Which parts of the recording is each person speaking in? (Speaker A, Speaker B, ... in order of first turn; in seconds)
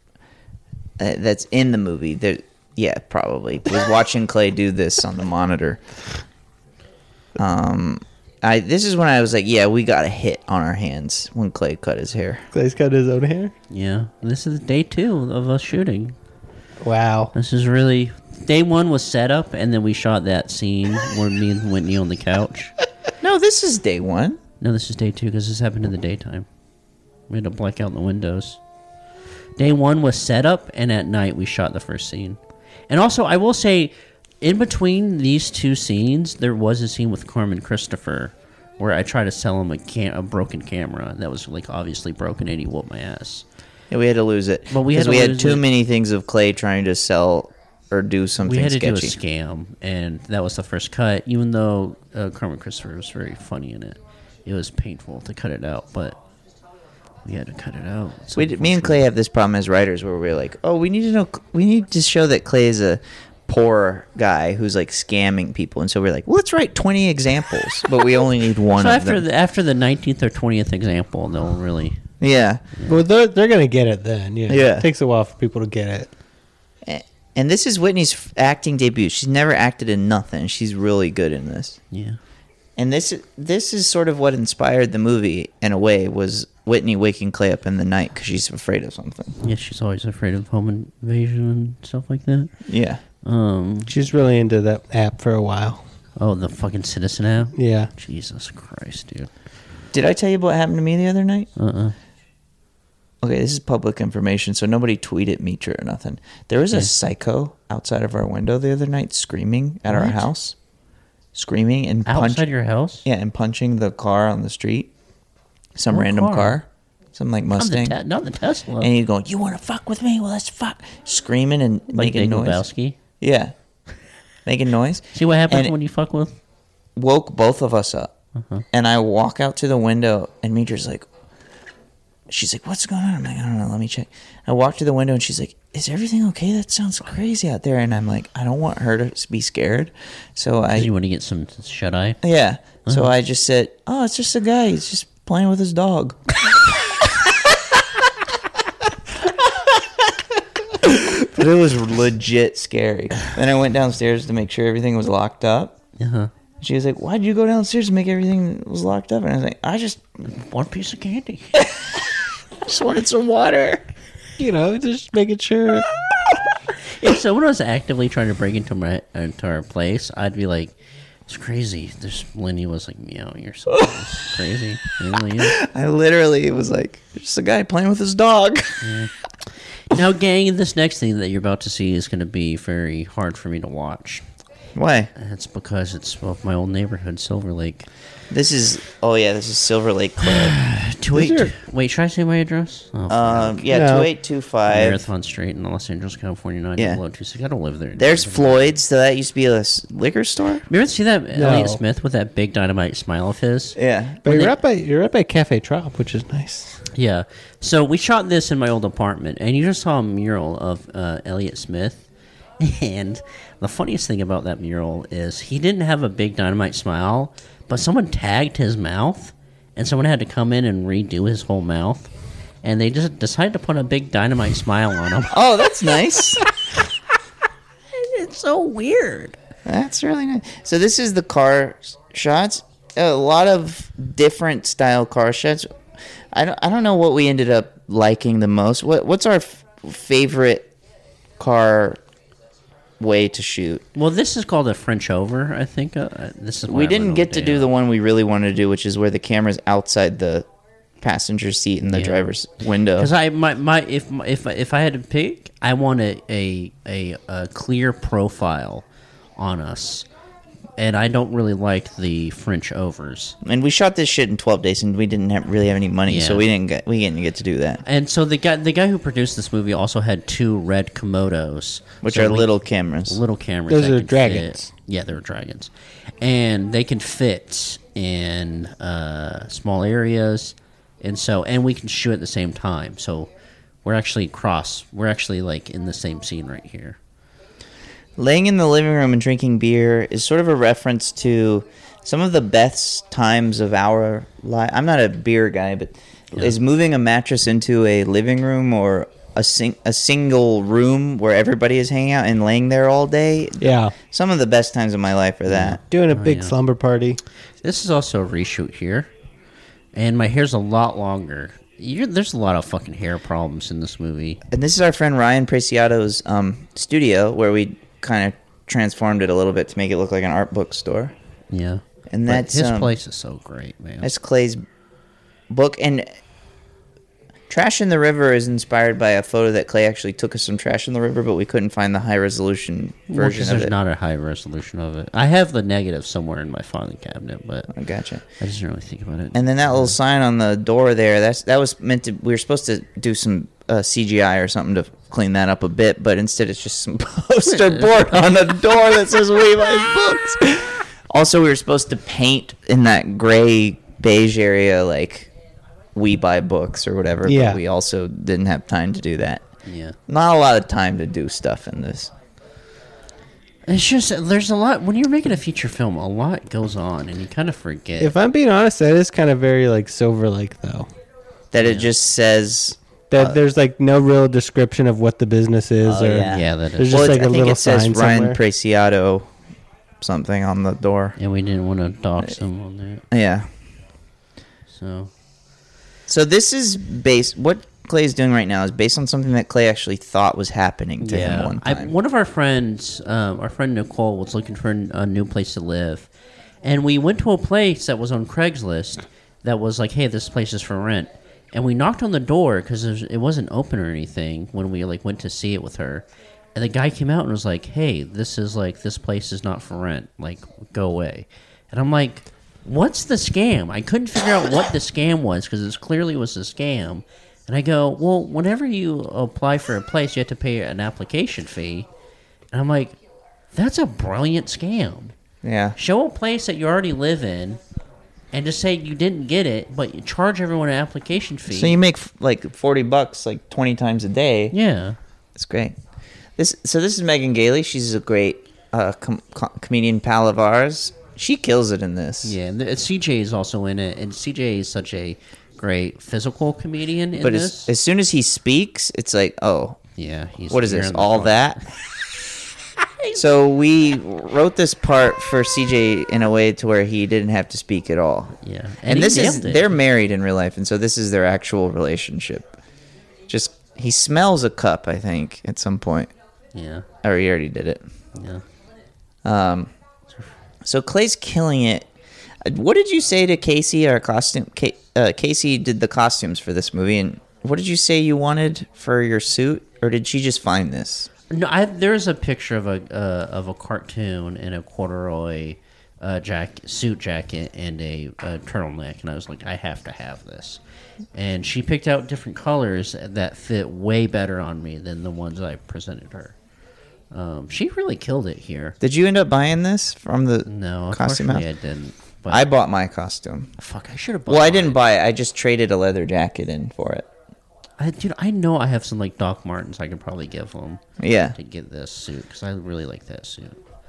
Speaker A: 1.0-5.8, 7.4-12.5, 23.2-24.4, 43.9-49.2, 58.3-69.2, 72.2-72.6, 74.5-74.9, 76.8-81.8, 82.8-89.4, 92.7-93.0, 99.9-101.5, 103.2-110.6, 111.3-112.5, 113.0-114.9, 115.8-118.0, 118.8-122.7, 123.2-123.5, 124.5-125.8, 127.0-128.1, 128.7-131.1, 132.3-140.9, 142.2-147.1, 149.4-149.8, 150.8-155.8, 156.6-160.1, 161.6-161.9, 162.6-163.9, 175.3-178.9, 184.8-185.1, 188.3-190.6, 193.1-195.0, 196.8-197.0, 197.9-200.7, 203.8-204.2, 225.3-226.4, 229.7-235.7, 236.3-240.7, 241.4-242.0, 243.0-243.8, 246.7-250.5, 251.0-253.1, 263.4-267.8, 272.0-273.2, 288.2-305.8, 314.5-321.1, 322.1-322.9, 324.0-324.6, 325.5-326.2, 327.5-333.7, 337.7-338.2, 339.3-355.3, 355.9-359.5, 360.1-362.1, 371.5-373.4, 375.8-379.3, 380.0-381.2, 383.1-383.5, 386.1-391.9, 425.4-425.8, 431.5-434.6, 435.4-435.8, 436.4-442.4, 447.2-449.8, 450.5-451.6, 453.1-462.6, 463.3-466.1, 467.0-467.9, 469.2-469.7, 470.6-471.9, 472.4-481.1, 498.8-501.5, 502.3-503.5, 504.3-507.1, 511.0-511.4
Speaker B: 12.5-13.5, 16.8-17.3, 72.9-76.1, 93.9-95.8, 97.5-97.9, 164.4-165.9, 191.2-191.5, 193.7-194.1, 201.3-201.8, 204.2-206.8, 273.7-274.7, 303.6-303.9, 305.9-307.2, 357.3-357.6, 368.0-370.9, 373.1-378.4
Speaker C: 13.7-16.2, 17.3-22.8, 24.6-26.5, 27.3-28.6, 29.6-43.5, 44.7-45.6, 48.4-56.2, 57.2-59.0, 68.7-72.0, 81.9-82.2, 89.4-92.5, 93.2-93.9, 96.2-99.3, 101.6-102.0, 109.9-110.3, 112.1-113.0, 115.9-116.6, 117.6-118.9, 121.9-123.0, 125.1-126.4, 128.4-128.7, 140.7-142.2, 156.0-156.3, 160.3-161.6, 167.0-170.8, 171.3-175.6, 178.8-184.3, 185.2-187.9, 190.2-193.7, 194.7-198.7, 200.7-204.6, 206.9-212.1, 212.6-222.1, 222.6-225.4, 227.9-229.4, 243.9-247.7, 251.9-252.3, 253.0-258.9, 259.4-260.1, 260.8-263.4, 266.1-266.5, 267.8-272.5, 273.1-283.3, 283.8-287.0, 305.5-306.6, 307.6-309.1, 309.9-314.4, 321.5-324.1, 333.1-337.7, 338.4-339.9, 347.5-348.2, 359.6-360.0, 363.7-368.2, 371.6-371.9, 376.3-377.2, 381.2-383.0, 384.7-385.1, 391.0-396.1, 396.6-421.9, 422.5-423.0, 423.5-425.1, 425.8-427.6, 428.3-431.8, 434.5-435.0, 442.2-447.7, 450.0-451.7, 458.4-459.8, 466.5-466.9, 468.1-468.4, 481.3-490.6, 491.1-496.4, 497.1-498.8, 500.5-502.4, 503.6-504.8, 507.8-510.8, 511.4-513.6